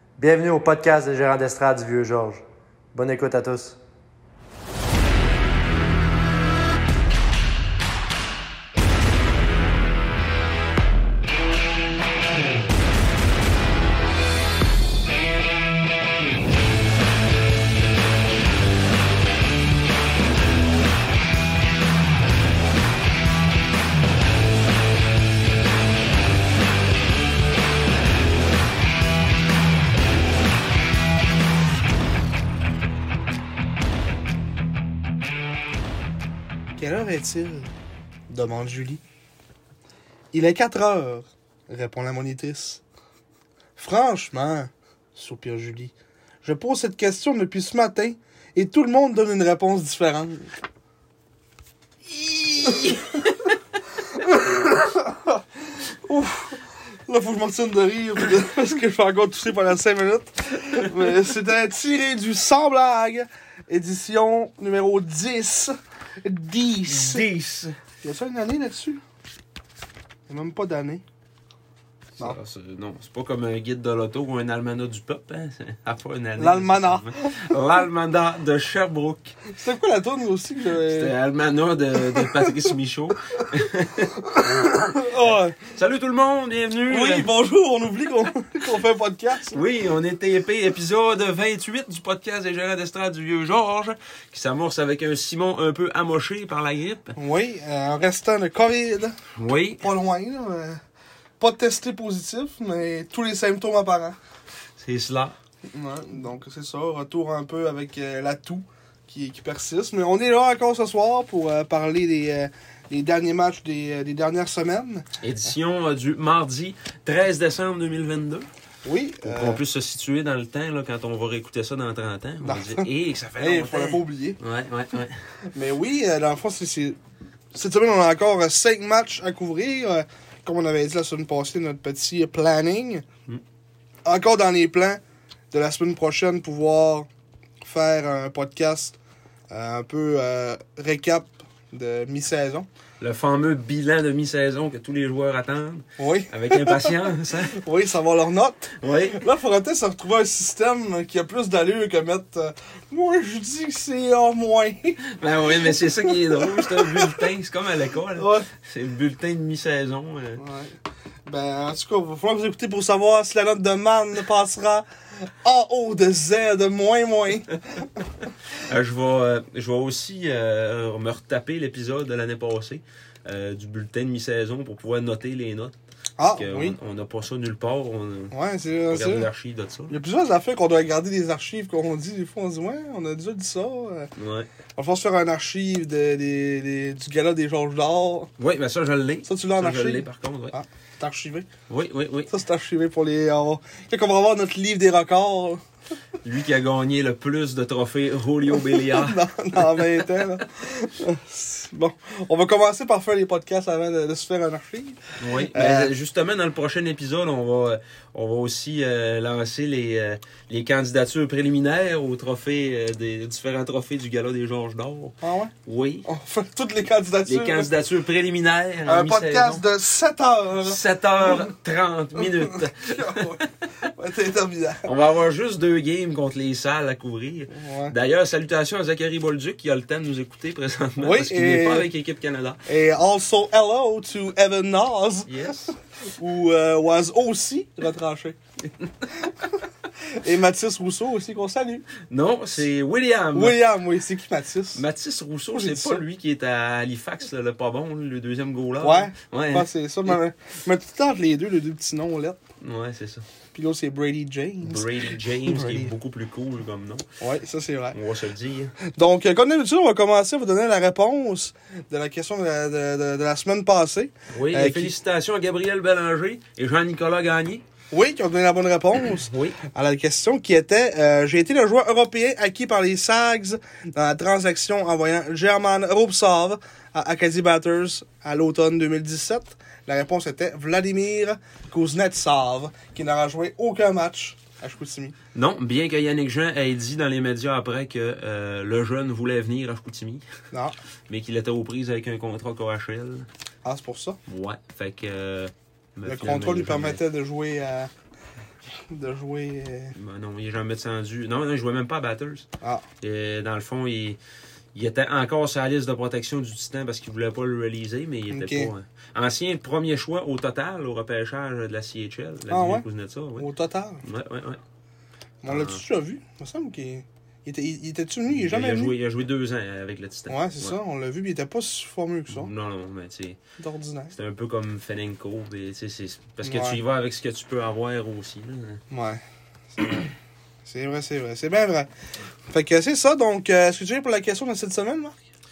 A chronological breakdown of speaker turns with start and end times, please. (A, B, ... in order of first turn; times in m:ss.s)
0:00.2-0:03.8 A
0:36.8-0:37.7 B
0:38.3-0:39.0 B
0:40.3-0:42.8 B
0:43.8-0:45.9 B
0:46.4-0:50.5 B
0:52.1-0:53.1 C
0:52.6-0:53.0 B
0:54.1-1:07.2 B
1:06.9-1:07.8 C
1:08.0-1:09.0 B
1:10.3-1:11.0 B
1:12.2-1:19.3 C
1:16.4-1:17.6 B
1:19.5-1:21.1 B
1:20.8-1:27.3 C
1:21.9-1:22.7 B
1:24.2-1:25.6 B
1:26.9-1:29.6 B
1:29.5-1:37.2 C
1:37.2-1:39.2 B
1:39.3-1:39.9 C
1:39.8-1:40.8 B
1:41.4-1:44.2 B
1:44.8-1:45.4 C
1:45.7-1:55.1 B
1:55.2-1:58.5 C
1:58.8-1:59.6 B
1:59.2-2:05.2 C
2:02.4-2:02.9 B
2:03.4-2:04.4 B
2:05.5-2:07.0 B
2:07.5-2:13.0 B
2:14.0-2:17.1 B
2:17.6-2:19.0 B
2:19.5-2:22.7 B
2:23.0-2:27.6 C
2:26.0-2:37.3 B
2:28.8-2:29.2 C
2:35.0-2:40.4 C
2:38.2-2:38.5 B
2:40.4-2:47.9 B
2:48.6-2:58.3 C
2:56.2-2:56.8 B
2:58.3-2:59.3 B
2:58.9-3:00.0 C
2:59.9-3:04.1 B
3:04.1-3:04.5 C
3:04.8-3:08.3 B
3:08.4-3:10.6 C
3:09.2-3:11.5 B
3:11.7-3:12.3 C
3:12.3-3:15.6 B
3:16.2-3:20.0 C
3:18.5-3:25.9 B
3:25.2-3:36.1 C
3:35.2-3:35.5 B
3:36.0-3:37.7 B
3:37.2-3:39.6 C
3:38.8-3:41.5 B
3:40.6-3:43.5 C
3:42.2-3:44.9 B
3:44.8-3:52.6 C
3:47.5-3:47.9 B
3:51.0-3:51.9 B
3:52.7-3:58.4 B
3:55.2-3:55.7 C
3:59.2-3:59.4 B
4:00.0-4:01.9 B
4:02.0-4:03.6 C
4:03.3-4:04.8 B
4:04.7-4:09.7 C
4:05.5-4:06.0 B
4:08.8-4:12.4 B
4:12.6-4:13.2 C
4:13.5-4:15.9 B
4:14.6-4:17.1 C
4:17.2-4:18.0 B
4:17.9-4:18.7 C
4:18.8-4:24.9 B
4:24.3-4:27.6 C
4:27.9-4:45.2 B
4:29.2-4:29.6 C
4:45.3-4:50.2 C
4:50.5-4:50.8 B
4:51.1-4:53.3 C
4:53.6-4:54.2 B
4:54.2-4:57.0 C
4:56.0-4:57.9 B
4:58.7-4:59.9 B
4:59.9-5:02.5 C
5:03.0-5:04.2 C
5:04.7-5:13.5 C
5:08.3-5:08.7 B
5:12.5-5:12.8 B
5:13.4-5:14.0 B
5:14.0-5:14.6 C
5:15.4-5:18.9 B
5:15.5-5:15.8 C
5:18.3-5:20.8 C
5:20.3-5:22.5 B
5:22.3-5:23.4 C
5:23.6-5:24.1 B
5:24.1-5:28.8 C
5:26.4-5:26.8 B
5:28.9-5:29.2 B
5:29.7-5:30.1 B
5:30.6-5:31.9 B
5:32.5-5:35.2 B